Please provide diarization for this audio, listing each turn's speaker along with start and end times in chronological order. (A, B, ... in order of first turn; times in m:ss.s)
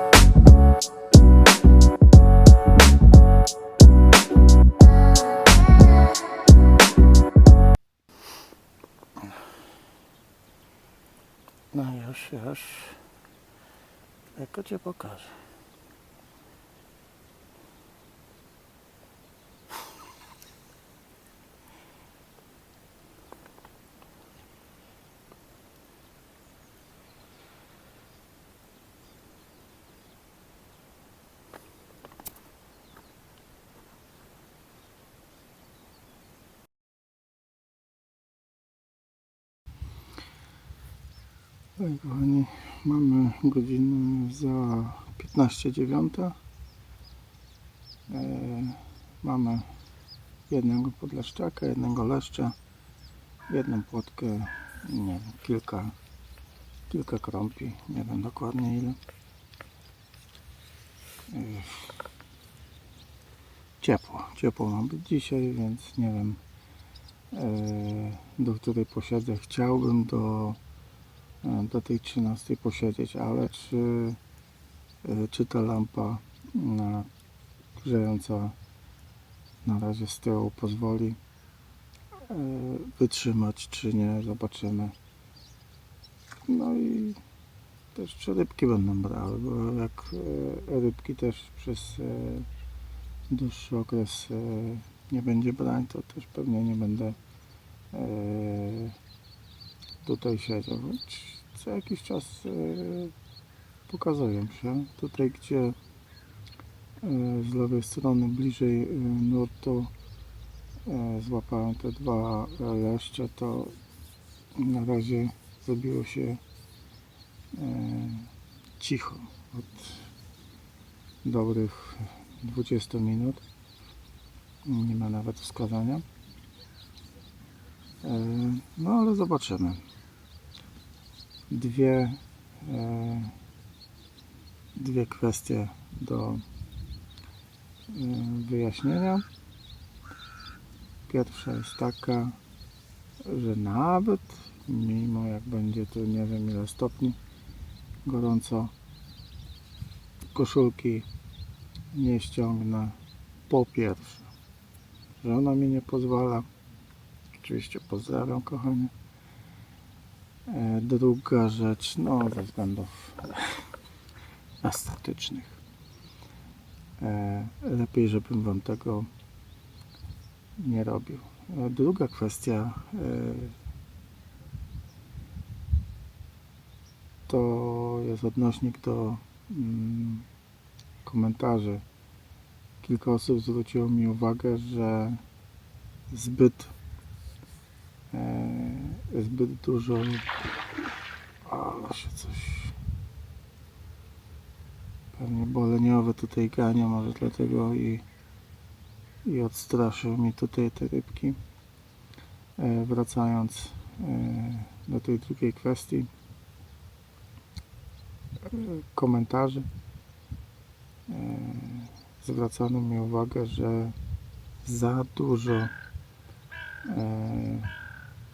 0:11.7-0:13.0 A
0:14.3-0:15.4 A
0:41.8-0:46.4 A
0:48.1-0:49.7 A
0:50.5-0:52.6 A
0:53.5-0:56.0 A
0:56.9-0:59.0 A
1:01.3-1:01.9 A
1:03.8-1:06.4 A
1:07.3-1:10.6 A
1:11.4-1:14.2 A
1:15.0-1:17.1 A
1:17.8-1:18.6 A
1:19.6-1:21.2 A
1:22.3-1:25.0 A
1:26.4-1:27.2 A
1:27.9-1:32.5 A
1:33.3-1:37.2 A
1:37.9-1:39.0 A
1:40.0-1:43.1 A
1:43.9-1:45.8 A
1:47.0-1:49.9 A
1:50.8-1:53.8 A
1:54.5-1:56.4 A
1:57.5-2:00.0 A
2:01.2-2:03.4 A
2:04.6-2:06.0 A
2:08.0-2:09.8 A
2:11.5-2:13.3 A
2:14.7-2:16.4 A
2:17.9-2:19.2 A
2:21.1-2:22.4 A
2:23.2-2:27.2 A
2:28.0-2:28.7 A
2:30.3-2:31.1 A
2:31.9-2:33.0 A
2:33.5-2:34.3 A
2:35.2-2:36.5 A
2:37.4-2:38.9 A
2:40.5-2:43.6 A
2:44.6-2:45.6 A
2:47.0-2:49.1 A
2:50.6-2:53.6 A
2:57.3-3:00.3 A
3:01.0-3:01.8 A
3:02.8-3:05.2 A
3:06.1-3:06.7 A
3:08.1-3:10.3 A
3:11.4-3:12.7 A
3:15.1-3:18.0 A
3:19.2-3:21.4 A
3:22.6-3:26.1 A
3:28.4-3:29.7 A
3:31.1-3:34.0 A
3:34.6-3:35.7 A
3:36.9-3:37.7 A